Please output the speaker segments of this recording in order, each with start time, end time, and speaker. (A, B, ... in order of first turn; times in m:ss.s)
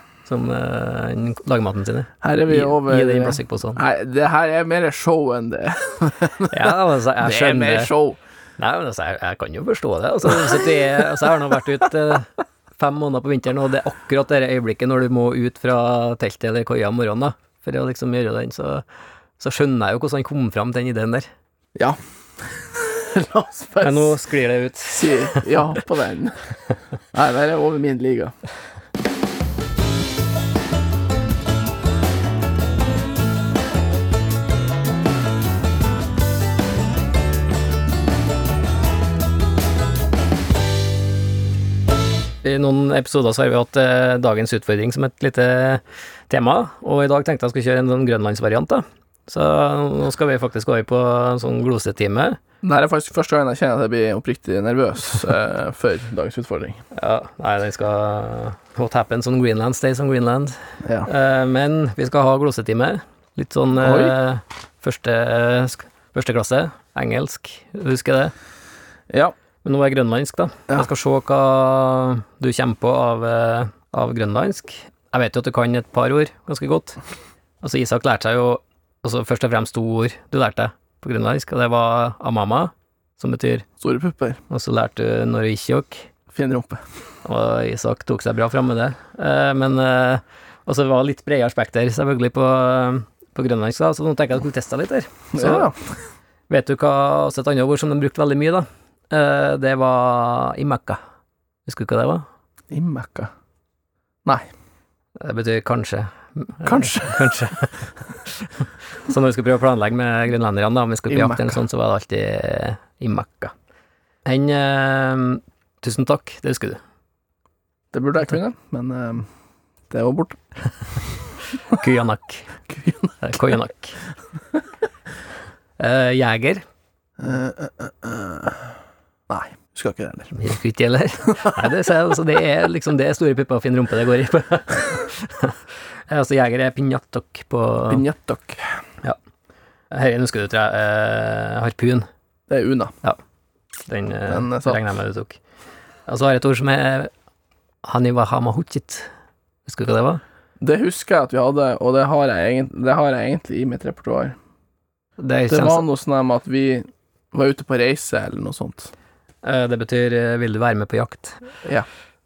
0:00.3-0:03.8 A
0:02.2-0:08.2 B
0:06.5-0:07.9 A
0:08.6-0:18.8 A
0:19.4-0:21.3 A
0:21.8-0:24.1 B
0:23.8-0:25.5 A
0:24.9-0:26.4 B
0:27.1-0:28.3 B
0:42.4-0:52.4 A
0:52.6-0:56.8 B
0:57.0-1:00.5 A
1:00.8-1:01.1 B
1:01.0-1:08.3 A
1:03.8-1:04.2 B
1:09.6-1:17.0 A
1:17.6-1:23.7 A
1:23.8-1:24.4 B
1:24.5-1:26.1 A
1:26.3-1:26.8 B
1:27.2-1:35.7 A
1:35.3-1:36.0 B
1:36.5-1:41.0 A
1:41.7-1:42.2 A
1:42.7-1:43.3 B
1:45.2-1:53.5 A
1:46.6-1:47.5 B
1:51.1-1:51.6 B
1:54.2-1:56.8 A
1:57.9-1:59.3 B
1:59.9-2:00.4 B
2:01.6-2:02.6 A
2:02.7-2:03.3 B
2:03.2-2:04.0 A
2:05.8-2:06.6 A
2:07.2-2:08.7 B
2:09.3-2:10.4 B
2:10.3-2:18.0 A
2:11.4-2:11.6 B
2:17.9-2:18.8 B
2:19.9-2:22.1 A
2:22.5-2:22.9 B
2:23.9-2:25.4 A
2:24.3-2:24.8 B
2:26.1-2:27.1 A
2:27.8-2:29.1 A
2:29.7-2:30.2 A
2:30.6-2:34.4 B
2:35.2-2:35.8 A
2:35.5-2:38.9 B
2:39.4-2:41.4 A